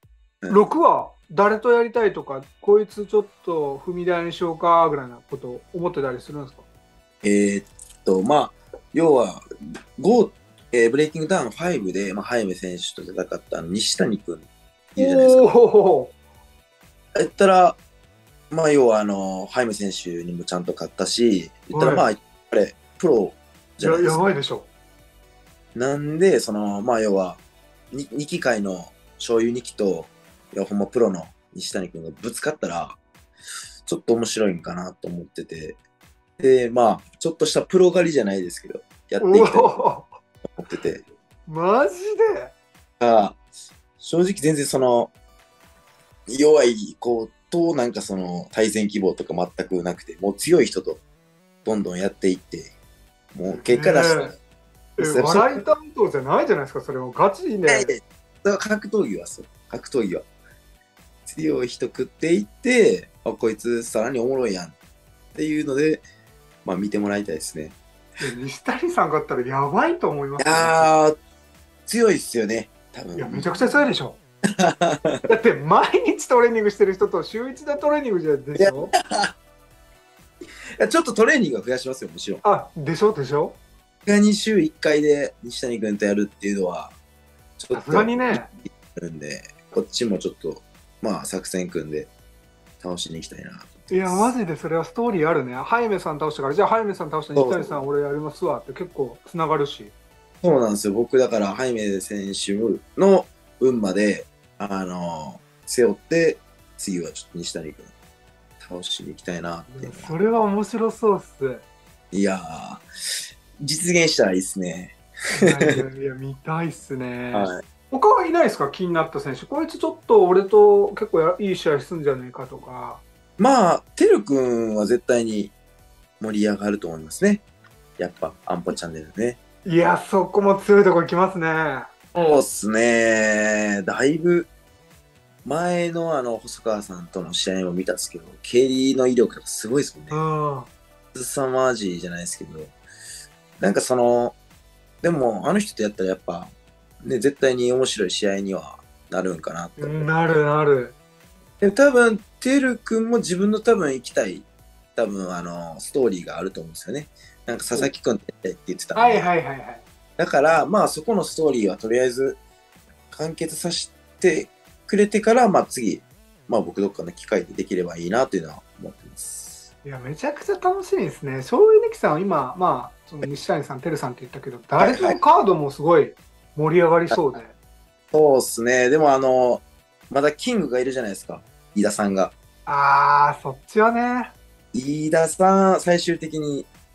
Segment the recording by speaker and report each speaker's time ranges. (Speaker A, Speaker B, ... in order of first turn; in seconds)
Speaker A: 0.5-6.7, 15.0-16.1, 21.7-22.1, 23.8-24.7, 39.2-40.2, 41.5-42.5, 53.5-54.4, 55.0-57.9, 68.2-70.9, 73.2-74.2, 75.3-78.9, 82.4-83.6, 87.7-88.5, 93.9-99.9, 109.7-111.6, 115.4-123.0, 129.6-131.9, 140.1-140.7, 149.8-150.9, 158.9-159.8, 169.8-177.6, 182.7-184.3
Speaker B: 7.2-9.4, 10.0-15.5, 17.1-17.8, 18.5-24.2, 25.8-33.0, 33.9-35.8, 36.4-39.8, 40.6-41.0, 43.0-43.4, 44.0-45.1, 46.3-51.0, 51.6-52.7, 53.3-54.4, 55.0-55.6, 57.7-60.3, 61.3-64.8, 65.3-66.0, 66.6-67.8, 70.4-71.2, 71.9-73.8, 74.6-75.2, 78.5-79.3, 80.8-82.4, 84.1-87.0, 87.6-92.1, 92.8-94.3, 97.3-97.9, 100.4-107.9, 108.6-110.2, 112.1-112.8, 113.6-115.8, 117.3-117.6, 123.4-125.5, 126.2-127.5, 128.0-129.4, 132.2-134.5, 135.4-140.2, 141.1-142.8, 143.6-144.4, 145.0-150.4, 151.6-159.3, 160.2-162.4, 163.1-169.7, 174.8-175.2, 177.1-177.4, 178.1-182.3, 184.7-186.7